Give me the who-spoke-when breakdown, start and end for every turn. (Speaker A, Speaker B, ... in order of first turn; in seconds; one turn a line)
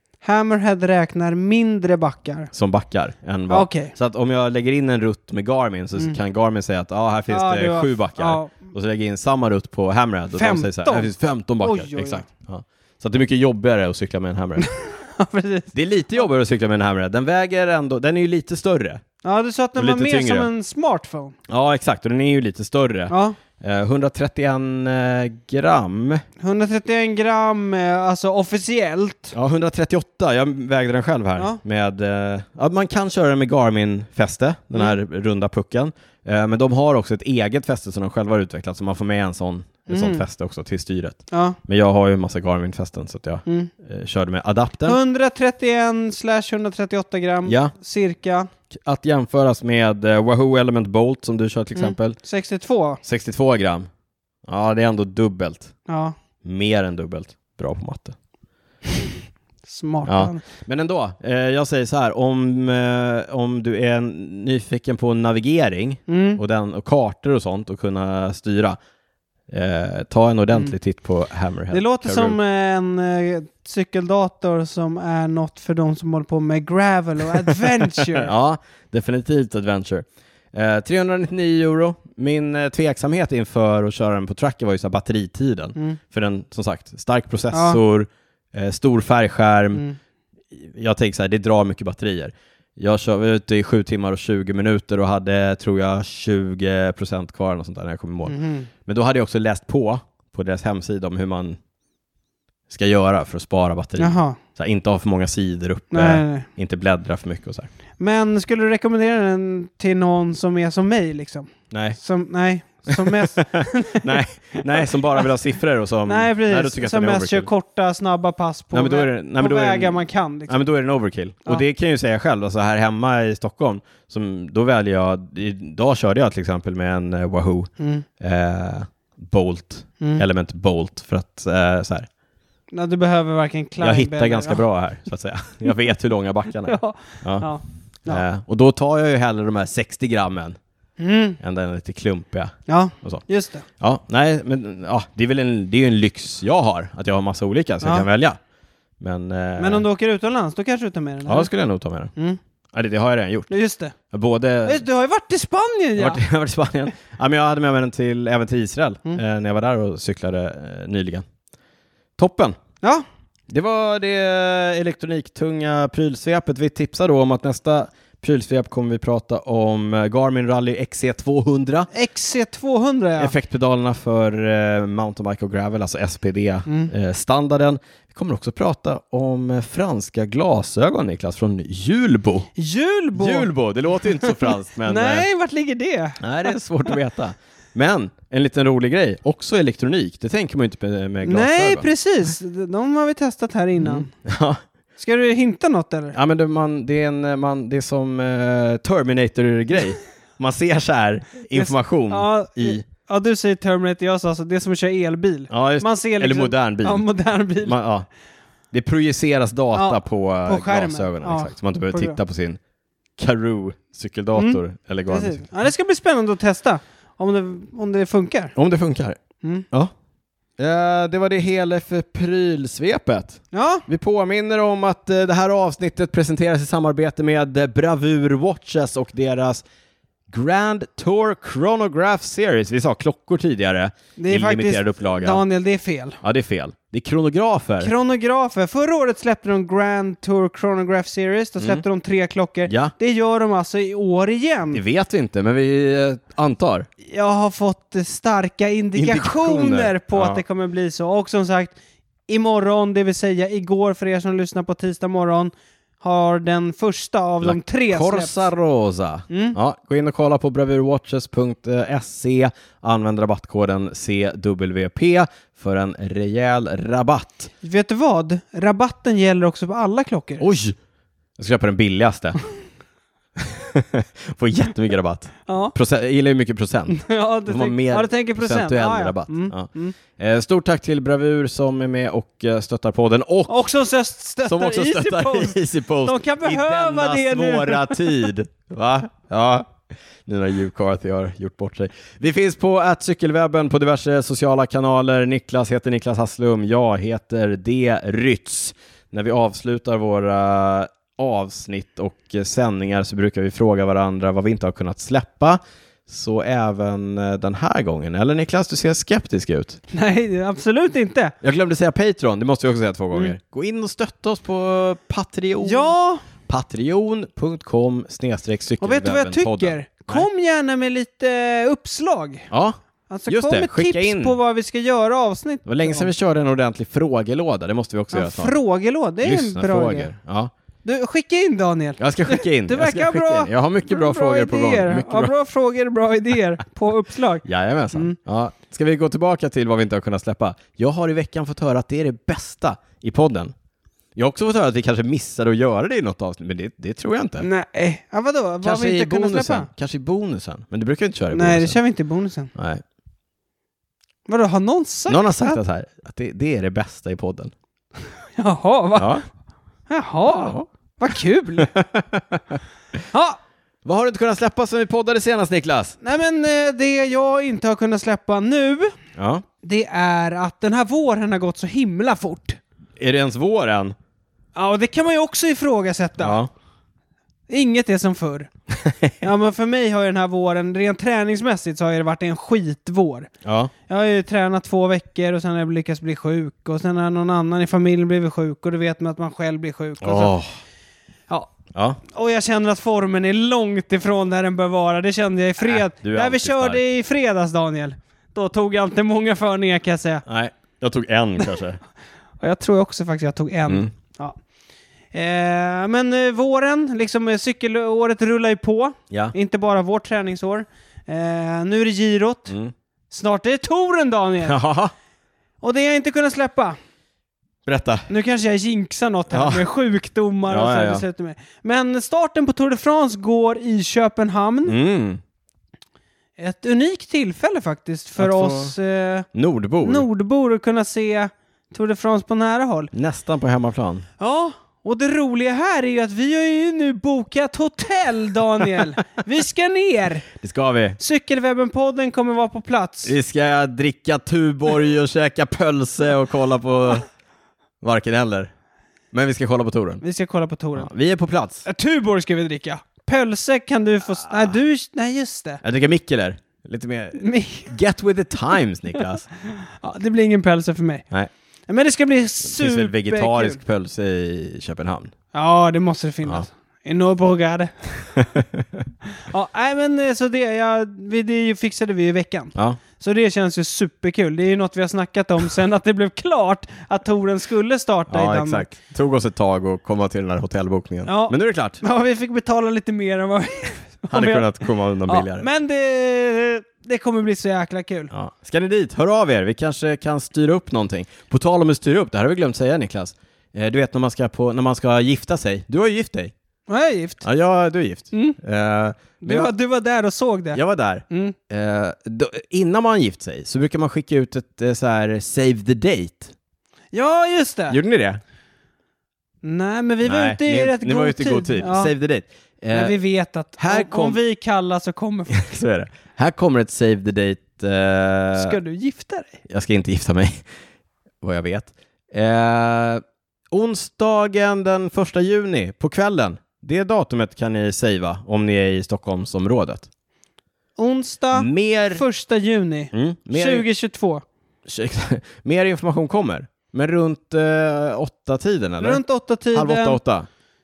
Speaker A: 0.2-2.5
Speaker B: 2.5-14.7
Speaker A: 3.5-3.9
Speaker A: 7.3-8.6
Speaker A: 10.3-11.1
Speaker A: 11.6-12.2
Speaker A: 14.6-16.2
Speaker B: 15.7-19.0
Speaker A: 19.2-21.4
Speaker B: 19.8-20.5
Speaker B: 21.5-26.2
Speaker A: 23.1-23.4
Speaker A: 26.4-29.3
Speaker B: 29.3-45.0
Speaker A: 39.9-40.2
Speaker A: 41.3-41.6
Speaker A: 43.5-43.7
Speaker A: 44.9-48.5
Speaker B: 47.5-47.7
Speaker B: 48.7-52.2
Speaker A: 51.8-53.0
Speaker B: 53.0-53.9
Speaker B: 54.5-55.7
Speaker A: 55.9-56.1
Speaker B: 56.4-58.2
Speaker A: 59.6-60.4
Speaker B: 60.1-68.8
Speaker A: 66.1-66.4
Speaker B: 69.5-72.4
Speaker A: 71.7-78.3
Speaker B: 78.1-89.8
Speaker A: 87.5-87.8
Speaker B: 90.5-101.6
Speaker A: 98.3-98.7
Speaker B: 102.7-107.7
Speaker A: 104.0-104.4
Speaker A: 105.9-106.5
Speaker A: 108.0-114.9
Speaker B: 111.7-112.0
Speaker B: 112.9-117.5
Speaker A: 116.1-120.5
Speaker B: 118.7-132.1
Speaker A: 127.8-128.1
Speaker A: 132.7-134.6
Speaker B: 133.8-137.5
Speaker A: 136.7-138.2
Speaker B: 138.1-140.6
Speaker A: 141.0-141.4
Speaker B: 141.4-143.3
Speaker A: 142.7-143.6
Speaker B: 143.8-148.4
Speaker B: 149.0-149.8
Speaker A: 149.6-151.5
Speaker B: 151.3-152.1
Speaker B: 152.7-153.5
Speaker A: 153.5-153.9
Speaker B: 154.1-154.8
Speaker A: 154.6-156.2
Speaker B: 156.0-161.3
Speaker B: 162.2-162.6
Speaker B: 163.5-171.9
Speaker A: 171.9-173.3
Speaker B: 173.2-182.5
Speaker A: 182.6-183.5
Speaker B: 183.2-185.3
Speaker A: 184.2-186.6
Speaker B: 186.2-191.9
Speaker A: 191.2-194.1
Speaker B: 193.8-194.6
Speaker A: 195.0-196.2
Speaker B: 196.1-202.9
Speaker A: 201.5-207.8
Speaker B: 205.5-207.1
Speaker B: 207.6-208.1
Speaker B: 208.7-212.6
Speaker A: 209.8-212.2
Speaker B: 213.2-215.4
Speaker A: 214.3-218.5
Speaker B: 218.6-219.2
Speaker B: 220.6-229.6
Speaker A: 223.5-223.8
Speaker B: 230.3-235.4
Speaker A: 234.2-236.2
Speaker B: 236.2-237.9
Speaker A: 237.8-244.8
Speaker B: 242.7-242.9
Speaker B: 244.7-246.9
Speaker A: 247.0-251.8
Speaker B: 248.9-250.4
Speaker A: 252.3-258.5
Speaker B: 257.4-267.5
Speaker A: 259.3-259.6
Speaker A: 267.6-270.4
Speaker B: 270.4-270.8
Speaker B: 271.4-272.4
Speaker B: 273.4-283.7
Speaker A: 275.5-275.7
Speaker A: 276.9-279.9
Speaker A: 283.5-288.3
Speaker B: 284.4-309.8
Speaker A: 309.9-311.3
Speaker B: 311.4-315.9
Speaker A: 315.6-316.2
Speaker B: 316.4-320.3
Speaker A: 318.8-322.5
Speaker B: 322.5-322.8
Speaker A: 323.1-326.1
Speaker B: 323.3-324.4
Speaker B: 325.6-328.6
Speaker A: 328.1-330.1
Speaker B: 329.2-330.5
Speaker A: 330.9-338.2
Speaker B: 332.0-335.3
Speaker B: 337.4-343.5
Speaker B: 344.2-347.5
Speaker A: 347.4-349.7
Speaker B: 348.6-351.8
Speaker A: 351.3-352.5
Speaker B: 352.6-352.8
Speaker A: 354.3-355.6
Speaker B: 355.1-357.5
Speaker A: 358.4-359.2
Speaker B: 358.9-359.2
Speaker A: 359.9-361.7
Speaker B: 360.3-360.7
Speaker B: 361.6-362.6
Speaker A: 363.1-363.4
Speaker B: 363.9-366.0
Speaker A: 366.0-368.9
Speaker B: 369.2-369.4
Speaker A: 369.6-372.6
Speaker B: 373.0-373.9
Speaker A: 374.6-376.4
Speaker B: 376.2-376.5
Speaker A: 377.5-378.5
Speaker B: 378.8-379.1
Speaker A: 379.2-383.3
Speaker B: 383.4-383.7
Speaker A: 383.9-390.3
Speaker B: 390.0-390.5
Speaker B: 391.7-392.0
Speaker A: 392.1-400.2
Speaker B: 395.6-396.8
Speaker B: 400.3-401.8
Speaker A: 402.4-404.4
Speaker A: 405.1-412.5
Speaker B: 409.1-409.4
Speaker A: 413.1-414.6
Speaker B: 414.4-414.9
Speaker A: 415.6-416.8
Speaker B: 417.7-418.1
Speaker A: 418.1-424.8
Speaker B: 419.3-419.6
Speaker B: 420.5-421.0
Speaker B: 424.7-425.2
Speaker A: 426.4-429.3
Speaker B: 428.2-428.7
Speaker B: 429.3-430.1
Speaker A: 429.8-432.9
Speaker B: 432.9-434.1
Speaker A: 434.2-440.2
Speaker B: 440.4-441.0
Speaker A: 441.0-443.1
Speaker B: 443.1-447.1
Speaker B: 447.8-448.5
Speaker B: 449.1-450.0
Speaker A: 450.0-450.9
Speaker B: 450.8-451.7
Speaker A: 451.7-455.6
Speaker B: 455.6-459.3
Speaker A: 457.2-457.7
Speaker A: 459.5-461.1
Speaker A: 461.7-463.6
Speaker B: 462.4-465.1
Speaker A: 465.3-467.9
Speaker B: 468.2-468.8
Speaker A: 469.2-478.7
Speaker B: 478.1-481.8
Speaker A: 481.1-488.1
Speaker B: 484.1-485.5
Speaker B: 488.1-496.3
Speaker A: 496.7-497.2
Speaker B: 497.2-499.5
Speaker A: 498.1-498.4
Speaker A: 499.2-501.4
Speaker B: 500.5-506.3
Speaker A: 506.9-507.8
Speaker B: 507.7-508.2
Speaker A: 509.4-511.9
Speaker B: 510.1-513.0
Speaker A: 512.7-515.4
Speaker B: 513.6-514.2
Speaker B: 515.3-518.6
Speaker A: 518.4-519.4
Speaker B: 519.5-520.4
Speaker B: 521.2-529.9
Speaker A: 530.8-534.2
Speaker B: 531.3-532.0
Speaker B: 532.9-533.7
Speaker B: 534.7-539.0
Speaker A: 538.8-540.0
Speaker B: 539.5-540.3